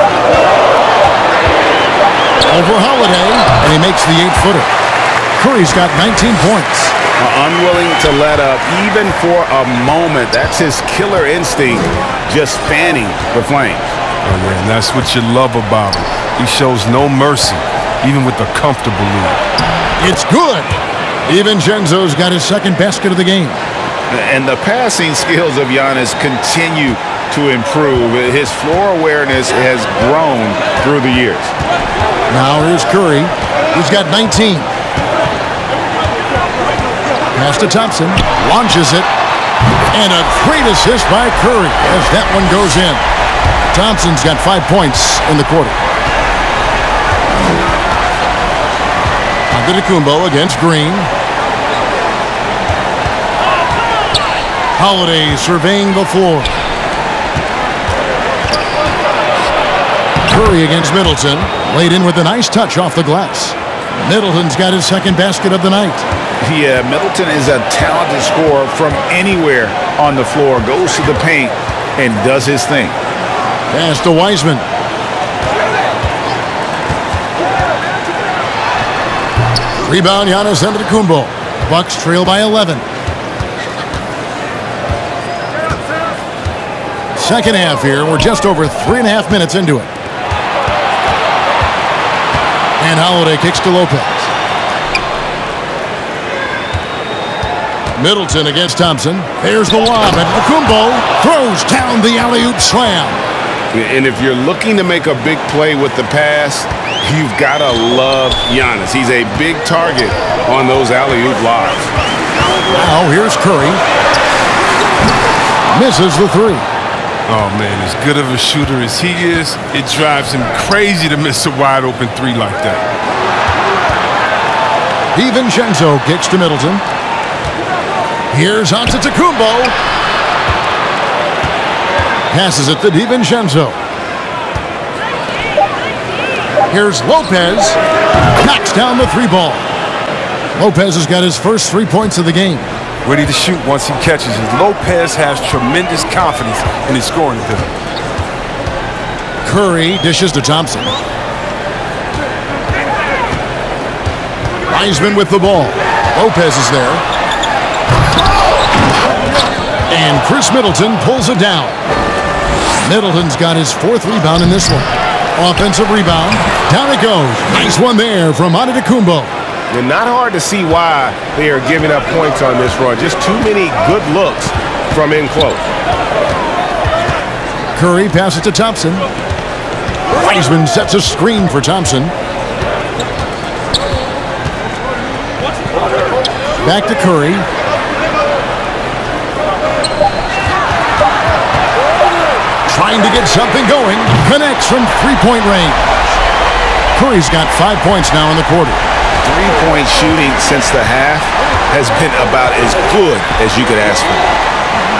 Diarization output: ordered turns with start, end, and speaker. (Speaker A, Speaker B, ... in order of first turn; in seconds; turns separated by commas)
Speaker A: 2.5-4.7, Speaker A: 5.4-6.9, Speaker B: 7.2-13.9, Speaker C: 14.2-19.4, Speaker A: 20.0-20.7, Speaker A: 21.3-23.6, Speaker B: 24.1-31.5, Speaker A: 32.3-34.7, Speaker A: 37.3-39.1, Speaker A: 39.9-43.0, Speaker A: 43.7-45.8, Speaker A: 49.5-51.1, Speaker A: 54.8-56.5, Speaker A: 60.2-66.0, Speaker B: 66.4-73.0, Speaker A: 73.7-74.6, Speaker A: 79.8-82.8, Speaker A: 87.1-89.9, Speaker A: 92.8-94.3, Speaker A: 98.0-103.2, Speaker B: 103.7-111.9, Speaker A: 112.7-113.8, Speaker A: 115.7-116.7, Speaker C: 117.3-122.8, Speaker A: 125.1-126.8, Speaker A: 128.3-129.8, Speaker A: 132.3-133.8, Speaker A: 136.7-137.8, Speaker A: 138.4-139.7, Speaker A: 140.5-142.7, Speaker C: 143.0-147.7, Speaker A: 149.4-151.0, Speaker A: 154.7-157.0, Speaker A: 159.9-161.8, Speaker A: 162.8-169.3, Speaker B: 169.7-175.7, Speaker A: 177.7-179.1, Speaker A: 180.1-182.1, Speaker A: 186.6-187.5, Speaker A: 192.7-196.2, Speaker A: 196.9-198.8, Speaker B: 199.2-204.3